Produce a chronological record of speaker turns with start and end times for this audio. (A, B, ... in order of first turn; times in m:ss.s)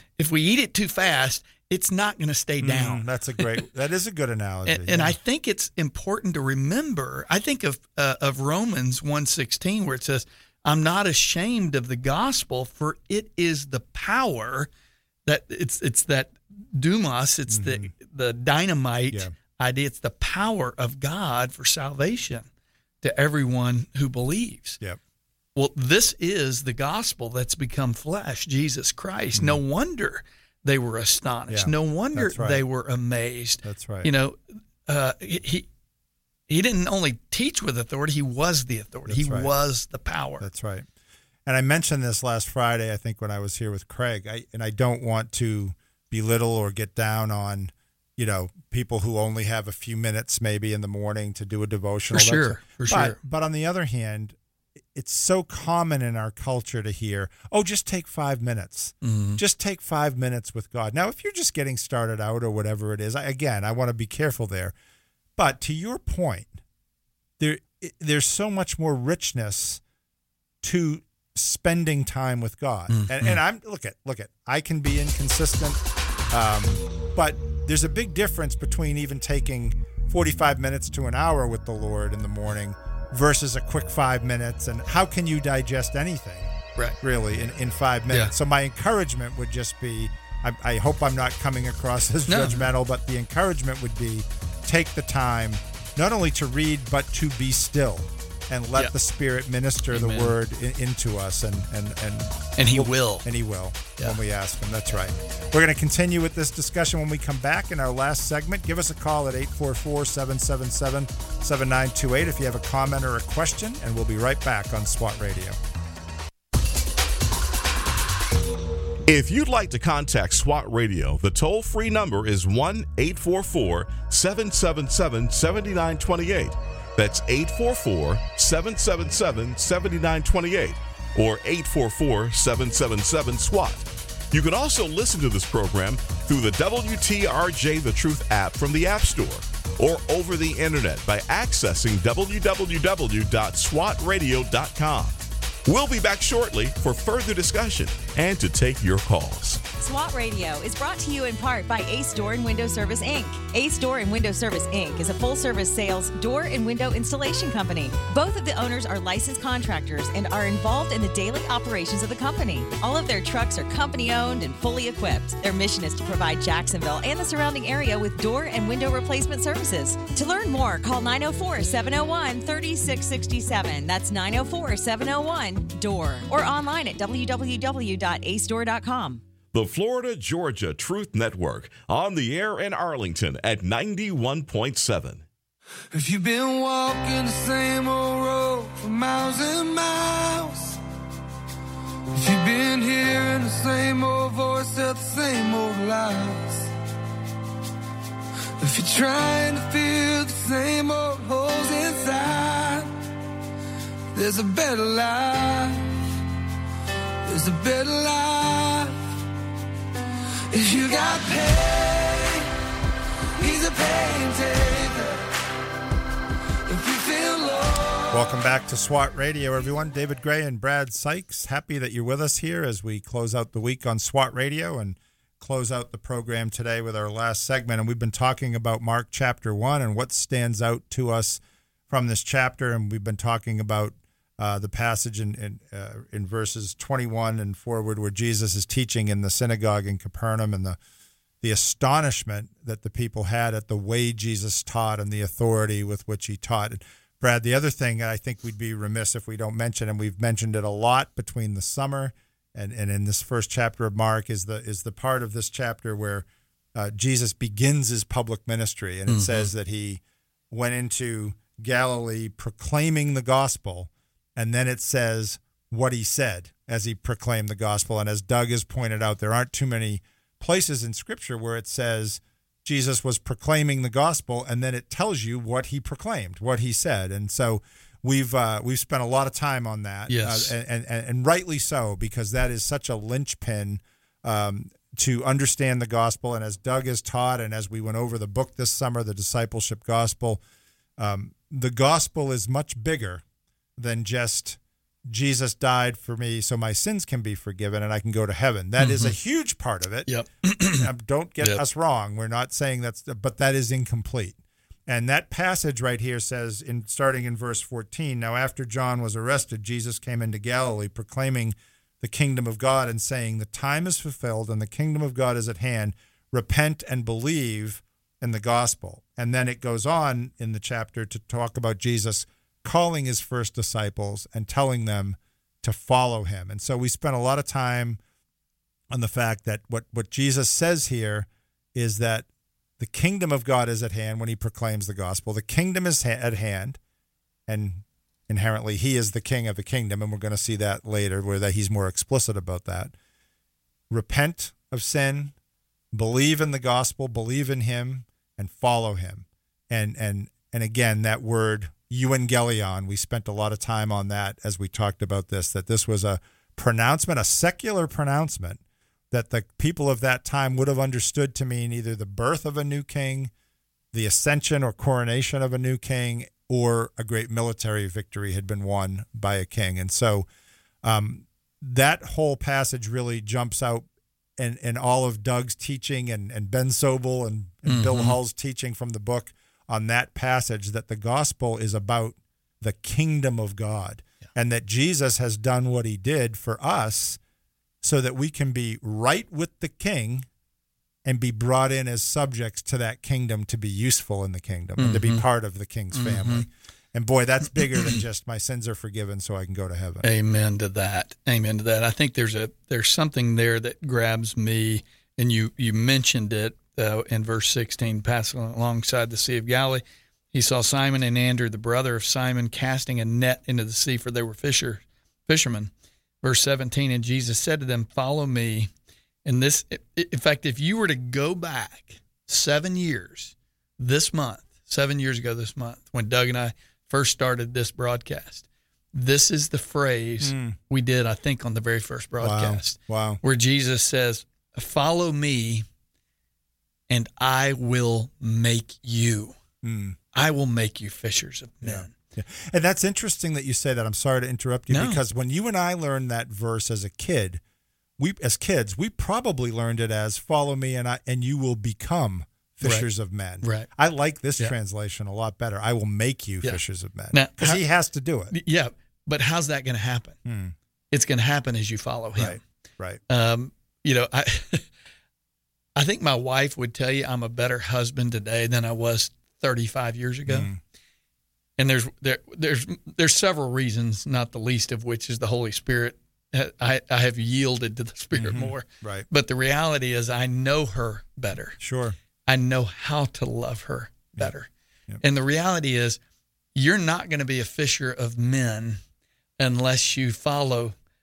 0:00.2-0:03.6 A
0:02.6-0:05.2 B
0:04.7-0:14.7 A
0:15.3-0:22.5 A
0:17.5-0:17.9 B
0:23.0-0:24.8 A
0:25.6-0:35.7 A
0:31.5-0:32.6 B
0:33.6-0:34.1 B
0:36.5-0:40.5 A
0:39.1-0:39.5 B
0:40.4-0:40.9 B
0:41.5-0:54.4 B
0:52.1-0:53.2 A
0:54.9-1:04.7 B
0:59.0-0:59.4 A
1:05.4-1:06.6 B
1:07.4-1:09.8 B
1:10.6-1:55.6 B
1:12.9-1:13.4 A
1:32.3-1:32.7 A
1:39.9-1:40.4 A
1:42.6-1:43.3 A
1:59.1-2:29.6 C
2:29.8-2:59.2 D
2:59.5-3:05.2 C
3:05.9-3:10.8 E
3:12.1-3:16.7 E
3:18.6-3:22.9 E
3:24.1-3:25.9 E
3:27.3-3:29.0 E
3:30.5-3:32.5 E
3:33.4-3:35.2 E
3:36.7-3:38.2 E
3:38.1-4:00.8 B
4:01.4-4:50.4 B
4:19.1-4:19.5 A
4:40.1-4:40.5 A
4:51.0-4:53.2 B
4:53.8-5:00.1 B
4:58.8-4:59.1 A
5:00.1-5:00.9 A
5:00.7-5:28.0 B
5:28.9-5:32.3 B
5:32.8-5:36.8 B
5:37.5-5:42.9 B
5:43.9-5:45.4 B
5:45.9-6:03.3 B
6:03.9-6:10.3 B
6:10.8-6:13.9 B
6:14.4-6:27.2 B
6:17.7-6:18.2 A
6:27.8-6:30.3 B
6:31.0-6:40.1 B
6:34.8-6:35.2 A
6:35.9-6:36.5 A
6:37.7-6:38.0 A
6:40.0-6:55.7 A
6:56.2-6:58.7 A
6:59.2-7:15.6 A
7:10.2-7:10.6 B
7:12.2-7:13.2 B
7:16.9-7:19.4 A
7:19.6-7:20.0 B
7:20.1-7:22.0 A
7:21.6-7:27.4 B
7:24.7-7:25.0 A
7:28.0-7:38.3 B
7:32.6-7:32.9 A
7:33.4-7:33.7 A
7:37.1-7:37.6 A
7:38.3-7:40.2 A
7:40.3-7:40.6 B
7:40.9-7:42.4 A
7:42.2-7:43.0 B
7:43.1-7:44.7 A
7:45.8-7:50.5 A
7:50.3-7:50.6 B
7:51.6-8:01.6 A
7:58.2-7:59.1 B
8:01.6-8:02.0 B
8:02.3-8:04.5 A
8:05.0-8:06.0 A
8:06.6-8:08.8 A
8:09.4-8:10.8 A